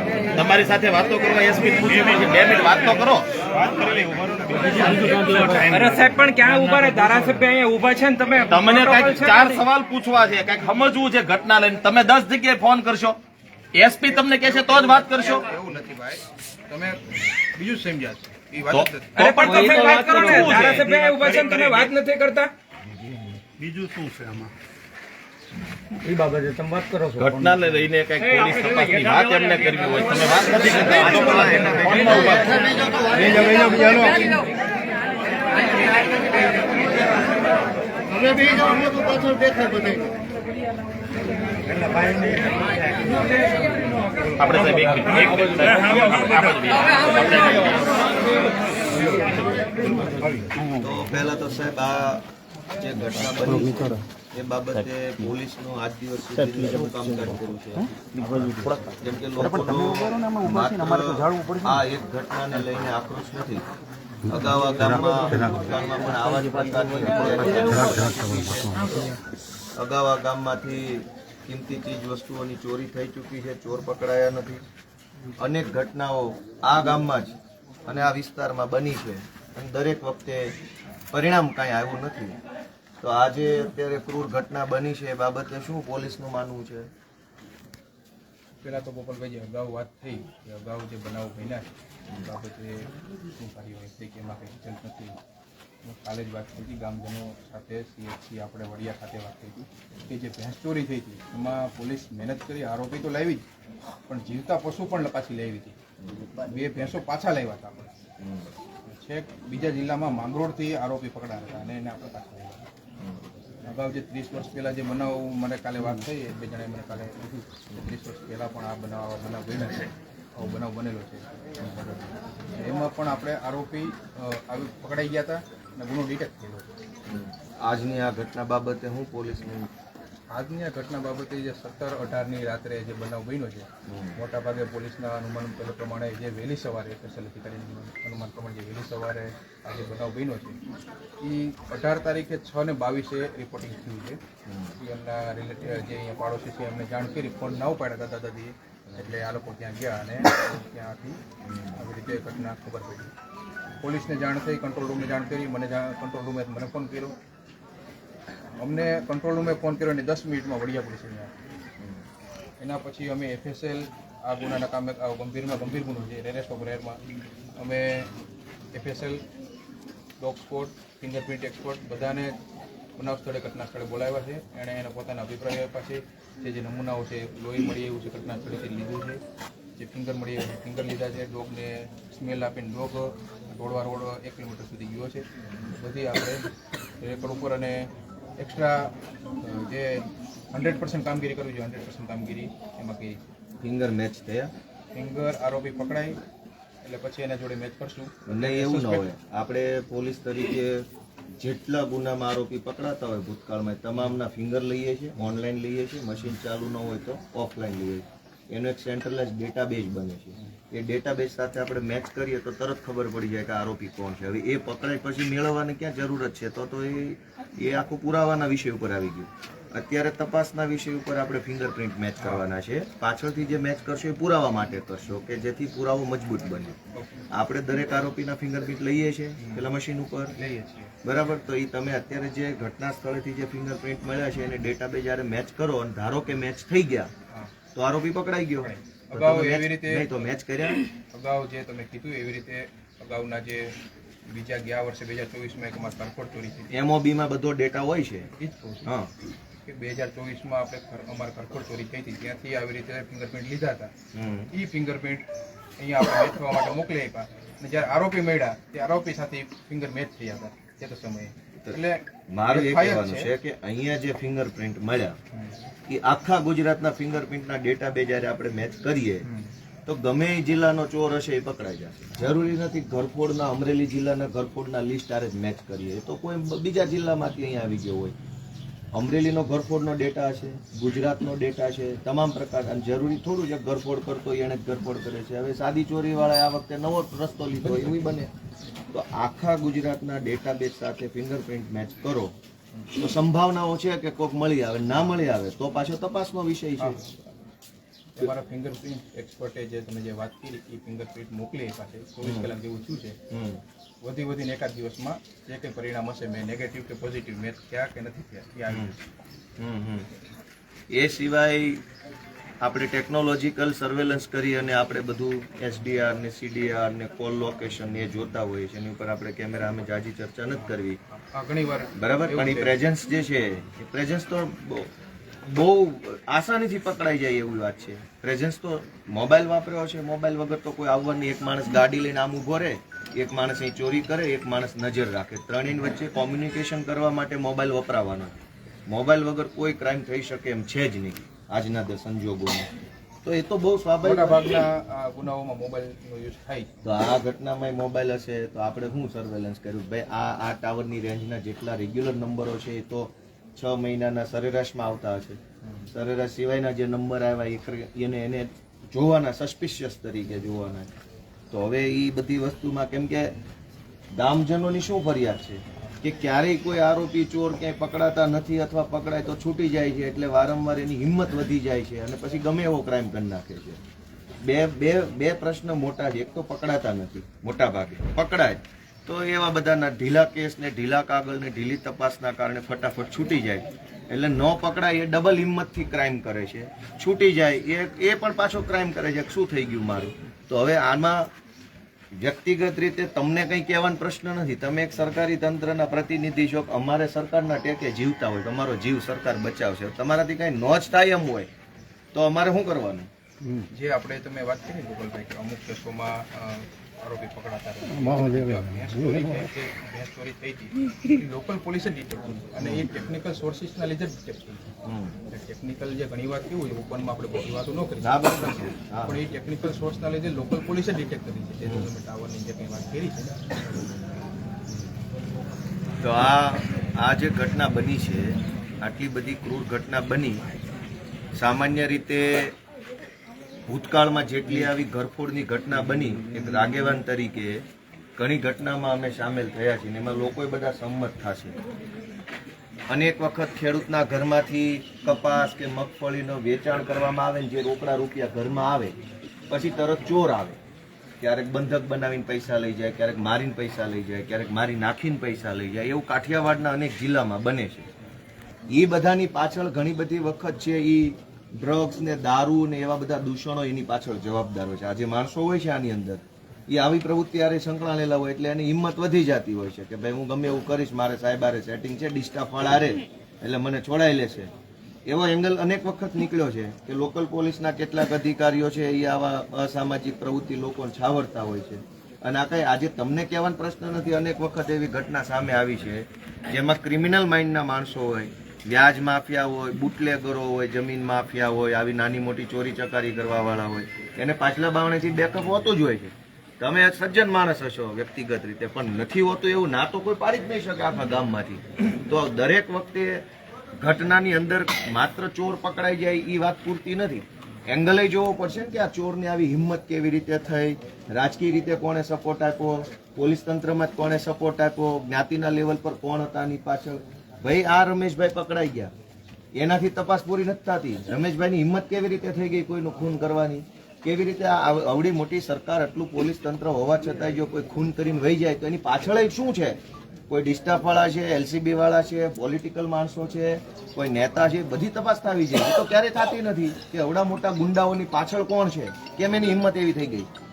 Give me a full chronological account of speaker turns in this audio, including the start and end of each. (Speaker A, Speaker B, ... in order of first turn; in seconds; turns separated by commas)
Speaker A: 0.3-6.1, Speaker B: 5.7-9.6, Speaker A: 8.5-13.2, Speaker A: 13.7-15.4, Speaker C: 14.3-19.5, Speaker A: 18.7-21.9, Speaker B: 19.2-22.5, Speaker A: 23.6-24.5, Speaker A: 26.0-34.4, Speaker D: 28.2-29.1, Speaker D: 30.4-33.7, Speaker D: 38.2-39.9, Speaker A: 44.4-47.9, Speaker A: 49.0-50.5, Speaker D: 50.6-52.2, Speaker D: 52.8-57.9, Speaker A: 56.4-57.4, Speaker A: 58.0-61.8, Speaker D: 58.8-63.6, Speaker D: 64.3-69.1, Speaker A: 64.5-68.9, Speaker D: 69.8-74.6, Speaker D: 75.3-80.5, Speaker D: 81.1-82.4, Speaker D: 83.0-86.9, Speaker C: 88.6-91.7, Speaker C: 92.2-95.2, Speaker C: 95.8-103.4, Speaker C: 104.1-105.8, Speaker D: 106.0-106.3, Speaker C: 106.5-107.9, Speaker D: 108.2-108.5, Speaker C: 108.8-112.6, Speaker D: 113.0-113.2, Speaker C: 113.6-121.2, Speaker C: 122.5-126.7, Speaker D: 127.1-129.7, Speaker C: 130.3-140.6, Speaker D: 133.9-134.2, Speaker C: 141.2-144.2, Speaker D: 144.4-144.8, Speaker C: 144.8-151.2, Speaker D: 151.4-151.8, Speaker C: 151.7-153.1, Speaker C: 153.8-157.2, Speaker C: 158.6-161.3, Speaker C: 162.6-167.0, Speaker C: 167.6-168.1, Speaker C: 168.7-169.2, Speaker C: 170.2-172.3, Speaker C: 173.0-179.2, Speaker C: 179.8-186.5, Speaker C: 187.0-193.2, Speaker D: 193.6-194.5, Speaker C: 194.9-196.2, Speaker C: 196.8-199.1, Speaker D: 198.2-200.8, Speaker D: 201.4-226.8, Speaker C: 222.2-222.4, Speaker C: 226.9-227.2, Speaker D: 227.3-230.3, Speaker C: 229.4-229.7, Speaker C: 230.3-230.9, Speaker D: 231.0-237.1, Speaker D: 237.7-240.9, Speaker C: 238.6-240.1, Speaker C: 241.1-243.8, Speaker C: 244.3-246.8, Speaker D: 246.7-248.3, Speaker C: 248.4-248.9, Speaker D: 248.8-249.1, Speaker C: 249.6-253.9, Speaker D: 254.1-254.5, Speaker C: 254.5-255.2, Speaker C: 255.8-263.3, Speaker D: 262.3-265.2, Speaker C: 265.3-265.6, Speaker D: 265.9-269.2, Speaker C: 269.2-269.5, Speaker D: 269.9-278.1, Speaker D: 278.9-288.3, Speaker D: 288.9-292.3, Speaker D: 292.9-297.0, Speaker C: 296.8-297.3, Speaker C: 298.1-303.2, Speaker D: 302.2-302.5, Speaker D: 303.3-303.6, Speaker C: 304.0-308.9, Speaker D: 308.7-308.9, Speaker D: 309.6-310.1, Speaker D: 310.9-311.8, Speaker D: 312.6-321.0, Speaker C: 320.5-322.8, Speaker D: 321.9-324.9, Speaker D: 325.4-338.3, Speaker D: 338.9-342.7, Speaker D: 343.2-344.6, Speaker C: 344.0-346.7, Speaker D: 346.8-355.4, Speaker C: 355.6-355.9, Speaker D: 355.9-360.9, Speaker D: 361.5-363.3, Speaker D: 364.1-373.8, Speaker D: 374.4-391.3, Speaker D: 392.1-401.5, Speaker D: 402.1-403.1, Speaker C: 403.6-414.7, Speaker D: 412.6-412.9, Speaker D: 414.8-415.1, Speaker C: 415.3-423.4, Speaker D: 418.0-419.2, Speaker D: 421.6-421.9, Speaker D: 426.0-430.4, Speaker D: 431.4-432.5, Speaker D: 433.7-437.6, Speaker D: 438.2-441.6, Speaker D: 442.9-449.0, Speaker D: 449.5-450.6, Speaker D: 451.2-457.9, Speaker D: 458.7-474.5, Speaker D: 475.1-503.2, Speaker D: 503.8-518.9, Speaker D: 519.5-540.3